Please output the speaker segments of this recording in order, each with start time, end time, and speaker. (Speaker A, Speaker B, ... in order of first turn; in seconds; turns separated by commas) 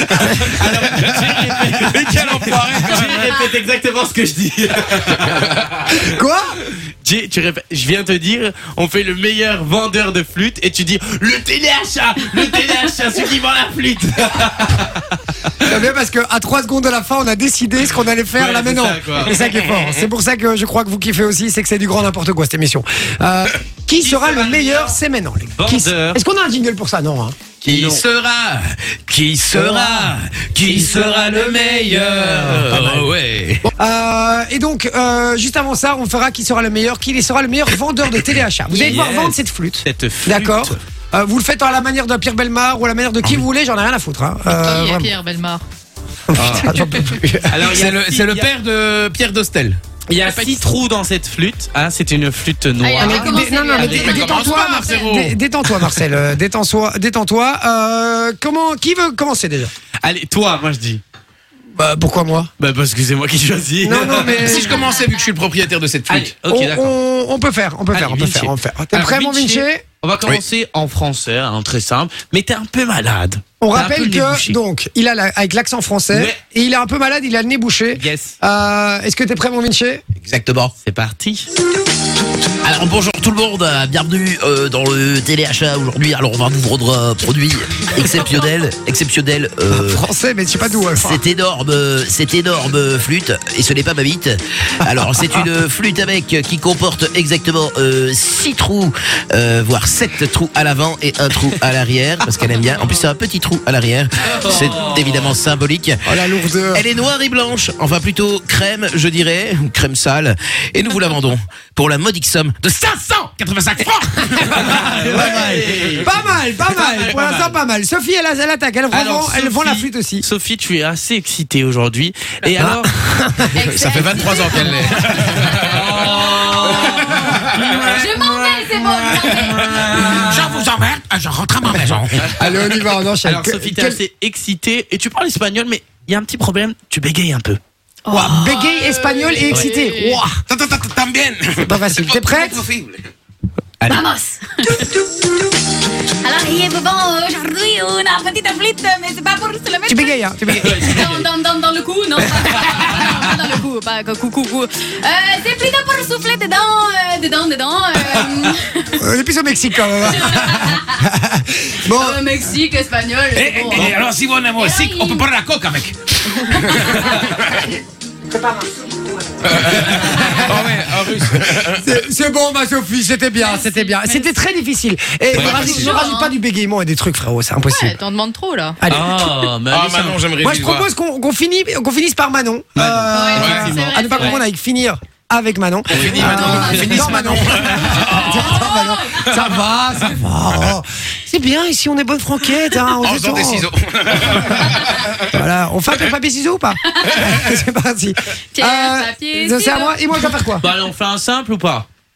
Speaker A: 0.1-5.6, Speaker B: 1.8-3.3, Speaker C: 2.5-3.0, Speaker C: 5.9-6.5, Speaker A: 7.0-15.5, Speaker C: 15.6-27.4, Speaker A: 18.3-19.4, Speaker A: 24.0-25.0, Speaker A: 25.5-26.2, Speaker A: 27.6-28.0, Speaker D: 27.6-33.6, Speaker C: 29.5-33.1, Speaker C: 33.7-45.1, Speaker A: 38.7-40.8, Speaker E: 44.5-45.6, Speaker C: 46.3-47.6, Speaker A: 46.3-46.8, Speaker A: 47.5-48.5, Speaker B: 47.8-49.7, Speaker D: 48.7-49.0, Speaker A: 50.1-54.2, Speaker E: 52.8-55.1, Speaker C: 53.0-59.7, Speaker B: 54.0-55.3, Speaker A: 60.0-61.0, Speaker C: 61.8-62.5, Speaker A: 62.6-64.6, Speaker C: 63.8-64.9, Speaker E: 64.2-65.3, Speaker D: 64.4-66.2, Speaker B: 64.5-66.2, Speaker A: 66.1-66.9, Speaker C: 66.4-69.8, Speaker A: 67.9-74.6, Speaker C: 73.6-80.0, Speaker A: 76.1-76.4, Speaker A: 77.9-78.3, Speaker D: 80.2-80.7, Speaker A: 80.8-81.5, Speaker D: 82.6-90.0, Speaker C: 89.7-91.2, Speaker D: 91.0-106.0, Speaker C: 95.0-95.4, Speaker A: 104.3-105.3, Speaker C: 106.0-106.8, Speaker D: 106.6-114.2, Speaker C: 114.2-120.2, Speaker B: 114.2-115.0, Speaker A: 114.5-117.6, Speaker D: 115.1-115.6, Speaker A: 118.9-122.9, Speaker C: 122.6-123.7, Speaker E: 123.5-124.8, Speaker D: 123.7-124.1, Speaker B: 123.8-126.2, Speaker C: 124.2-124.9, Speaker A: 125.3-130.6, Speaker E: 126.6-127.1, Speaker B: 127.2-127.8, Speaker E: 127.8-130.1, Speaker B: 130.1-132.0, Speaker D: 130.6-132.3, Speaker C: 132.3-134.0, Speaker A: 133.2-137.6, Speaker E: 138.1-140.2, Speaker C: 138.1-140.4, Speaker B: 140.5-143.1, Speaker C: 141.6-142.6, Speaker E: 143.9-145.4, Speaker E: 146.2-159.0, Speaker C: 149.9-151.1, Speaker A: 150.5-151.3, Speaker C: 159.0-162.3, Speaker E: 159.9-161.0, Speaker E: 161.9-164.0, Speaker B: 163.3-165.9, Speaker E: 164.6-165.3, Speaker B: 166.6-167.6, Speaker C: 168.2-170.9, Speaker B: 169.4-171.8, Speaker C: 171.7-178.0, Speaker E: 173.3-174.3, Speaker A: 175.3-175.6, Speaker B: 175.3-175.9, Speaker E: 175.4-176.3, Speaker E: 177.7-178.8, Speaker C: 178.8-179.3, Speaker A: 178.9-180.2, Speaker D: 179.7-180.2, Speaker B: 179.8-180.8, Speaker C: 180.4-193.7, Speaker A: 182.8-184.4, Speaker E: 183.1-184.4, Speaker A: 185.9-186.9, Speaker E: 186.0-189.2, Speaker B: 186.0-188.5, Speaker D: 186.5-187.2, Speaker B: 193.0-195.3, Speaker C: 195.3-200.7, Speaker E: 196.8-197.2, Speaker E: 198.5-200.2, Speaker A: 200.6-201.9